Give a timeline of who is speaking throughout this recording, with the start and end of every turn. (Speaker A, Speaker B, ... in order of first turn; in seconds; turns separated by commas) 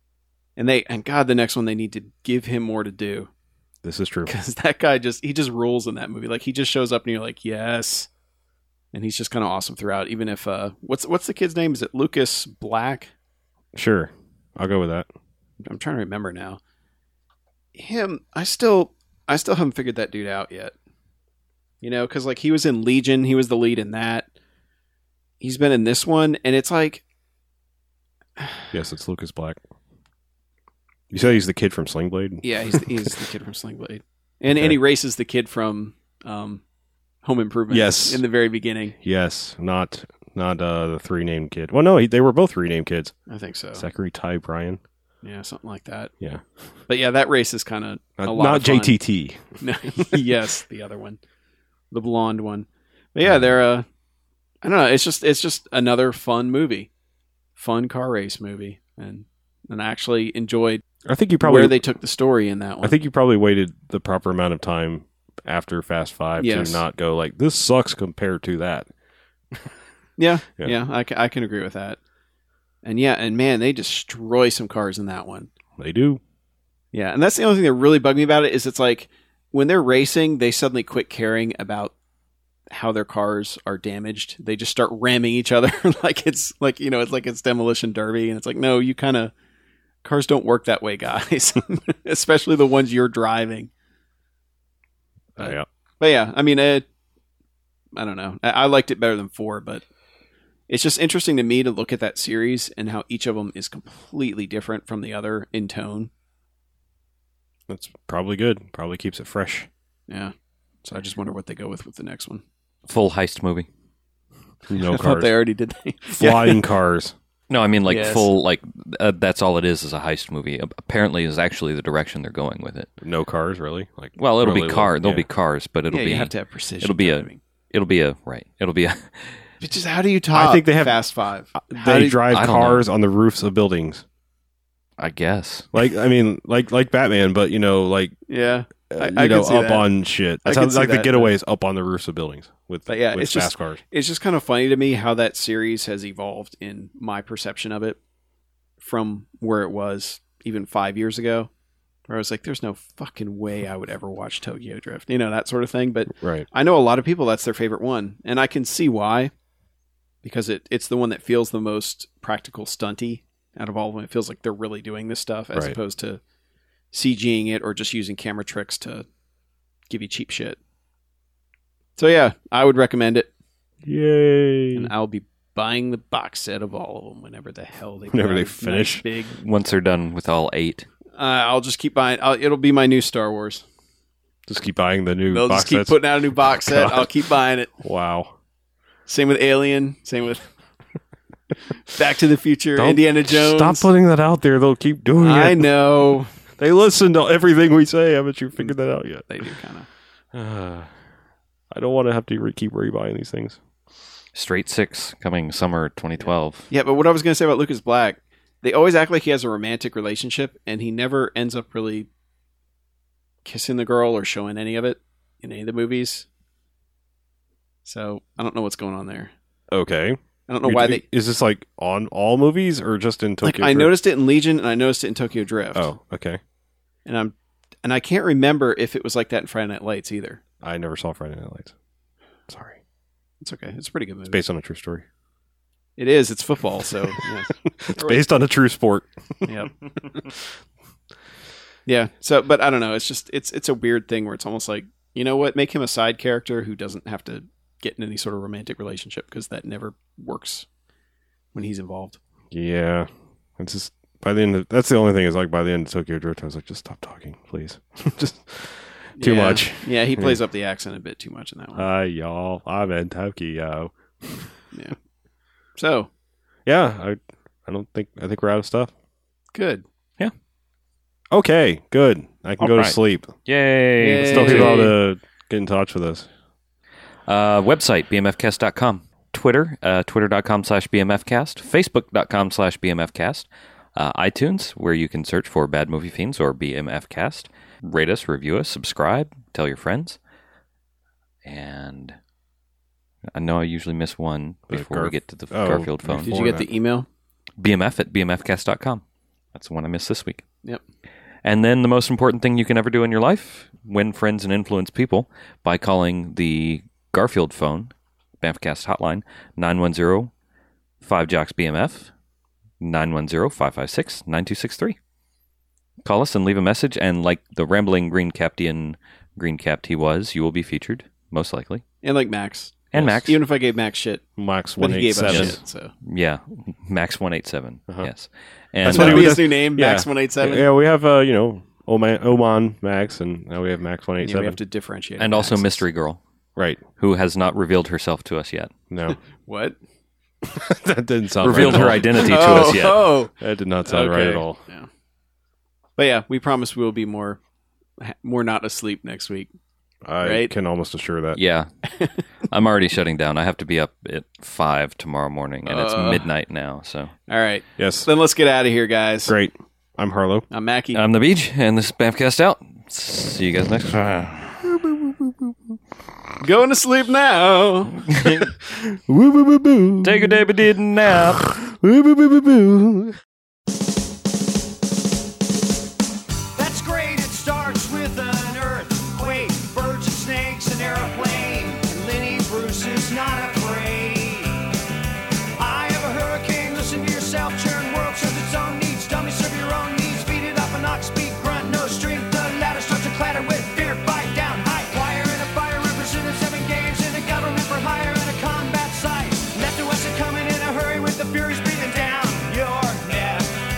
Speaker A: 0.6-3.3, Speaker B: 3.8-4.3, Speaker A: 4.2-8.1, Speaker A: 8.9-13.1, Speaker B: 13.7-15.1, Speaker A: 15.6-16.6, Speaker A: 17.7-20.7, Speaker A: 21.8-24.3, Speaker A: 25.4-27.0, Speaker B: 28.7-29.6, Speaker B: 31.1-33.1, Speaker A: 32.4-36.6, Speaker B: 34.5-34.8, Speaker A: 37.2-38.9, Speaker B: 37.7-38.2, Speaker B: 39.0-43.1, Speaker A: 43.3-43.9, Speaker B: 43.7-44.8, Speaker A: 45.2-46.1, Speaker B: 46.2-46.4, Speaker A: 46.9-49.0, Speaker B: 48.2-49.4, Speaker A: 49.6-51.2, Speaker A: 51.9-53.9, Speaker B: 53.2-53.5, Speaker A: 54.6-56.9, Speaker A: 57.6-60.8, Speaker B: 61.0-61.8, Speaker A: 61.4-63.0, Speaker B: 62.8-68.9, Speaker A: 66.4-66.8, Speaker A: 70.2-72.0, Speaker A: 72.8-75.5, Speaker B: 75.8-76.2, Speaker A: 76.9-81.9, Speaker A: 82.7-89.3, Speaker A: 90.0-93.7, Speaker B: 95.4-95.7, Speaker A: 95.4-96.8, Speaker A: 98.0-99.8, Speaker A: 100.7-106.1, Speaker B: 107.7-109.7, Speaker A: 110.8-112.4, Speaker C: 112.9-113.7, Speaker B: 114.7-115.3, Speaker A: 114.8-116.6, Speaker B: 116.1-117.1, Speaker C: 117.5-122.9, Speaker A: 117.8-118.3, Speaker B: 123.0-125.2, Speaker C: 124.2-129.4, Speaker A: 125.9-127.4, Speaker A: 129.6-132.2, Speaker B: 130.3-131.0, Speaker B: 131.6-134.0, Speaker C: 132.3-132.8, Speaker C: 135.0-135.7, Speaker B: 135.7-138.1, Speaker A: 138.3-139.8, Speaker B: 138.9-143.8, Speaker A: 140.4-141.3, Speaker A: 142.9-148.0, Speaker A: 148.8-151.5, Speaker A: 152.1-159.3, Speaker B: 156.2-156.4, Speaker A: 160.2-166.2, Speaker A: 166.9-169.1, Speaker A: 169.9-170.6, Speaker A: 172.0-173.3, Speaker B: 173.8-174.9, Speaker A: 174.7-179.4, Speaker B: 178.1-179.1, Speaker C: 179.4-180.8, Speaker A: 181.2-183.6, Speaker B: 184.5-187.1, Speaker A: 185.3-187.7, Speaker B: 187.8-188.3, Speaker A: 189.1-190.5, Speaker A: 191.8-193.9, Speaker B: 192.8-195.7, Speaker A: 195.2-196.3, Speaker B: 196.6-199.4, Speaker A: 199.3-199.9, Speaker B: 200.3-200.9, Speaker B: 201.7-203.6, Speaker C: 204.3-206.7, Speaker A: 206.7-212.1, Speaker A: 213.4-216.3, Speaker A: 217.8-219.3, Speaker B: 219.7-223.9, Speaker A: 220.5-221.0, Speaker A: 223.4-225.9, Speaker B: 225.7-226.4, Speaker A: 227.1-230.4, Speaker B: 230.6-231.7, Speaker B: 232.5-232.8, Speaker A: 233.4-234.4, Speaker B: 234.3-235.0, Speaker A: 236.0-238.2, Speaker B: 237.8-239.5, Speaker A: 239.4-239.7, Speaker A: 241.8-250.7, Speaker A: 251.5-252.2, Speaker B: 252.5-260.4, Speaker A: 259.2-261.9, Speaker B: 261.8-264.5, Speaker A: 265.8-266.1, Speaker B: 266.6-268.9, Speaker A: 269.5-269.8, Speaker B: 271.3-273.3, Speaker C: 272.6-274.9, Speaker A: 274.0-274.9, Speaker B: 274.2-276.3, Speaker C: 277.3-290.2, Speaker C: 291.4-292.1, Speaker C: 293.3-296.3, Speaker B: 294.7-296.6, Speaker A: 296.1-297.1, Speaker C: 297.6-299.0, Speaker C: 299.5-300.4, Speaker C: 301.4-310.3, Speaker C: 311.0-312.1, Speaker C: 312.8-315.0, Speaker C: 316.0-321.8, Speaker A: 322.0-324.2, Speaker C: 322.9-323.4, Speaker B: 324.4-325.6, Speaker A: 324.8-325.9, Speaker C: 325.3-329.4, Speaker B: 328.8-334.6, Speaker A: 328.9-330.7, Speaker A: 334.2-335.8, Speaker C: 335.2-336.2, Speaker B: 336.6-336.8, Speaker C: 337.0-338.7, Speaker B: 338.9-339.2, Speaker A: 339.1-339.8, Speaker B: 340.4-342.8, Speaker C: 341.4-343.1, Speaker A: 341.5-343.3, Speaker B: 343.4-344.6, Speaker A: 343.8-344.9, Speaker A: 346.0-347.4, Speaker A: 348.0-349.5, Speaker B: 350.0-351.4, Speaker A: 350.2-350.5, Speaker C: 351.3-351.7, Speaker C: 352.5-357.1, Speaker A: 355.6-356.3, Speaker A: 357.3-359.3, Speaker B: 357.8-358.1, Speaker B: 359.3-360.4, Speaker A: 360.5-361.0, Speaker C: 360.9-364.6, Speaker B: 364.6-365.5, Speaker A: 366.4-368.1, Speaker C: 368.1-368.5, Speaker B: 368.4-370.5, Speaker C: 370.0-371.5, Speaker B: 371.1-373.2, Speaker D: 376.5-384.6, Speaker D: 385.6-403.5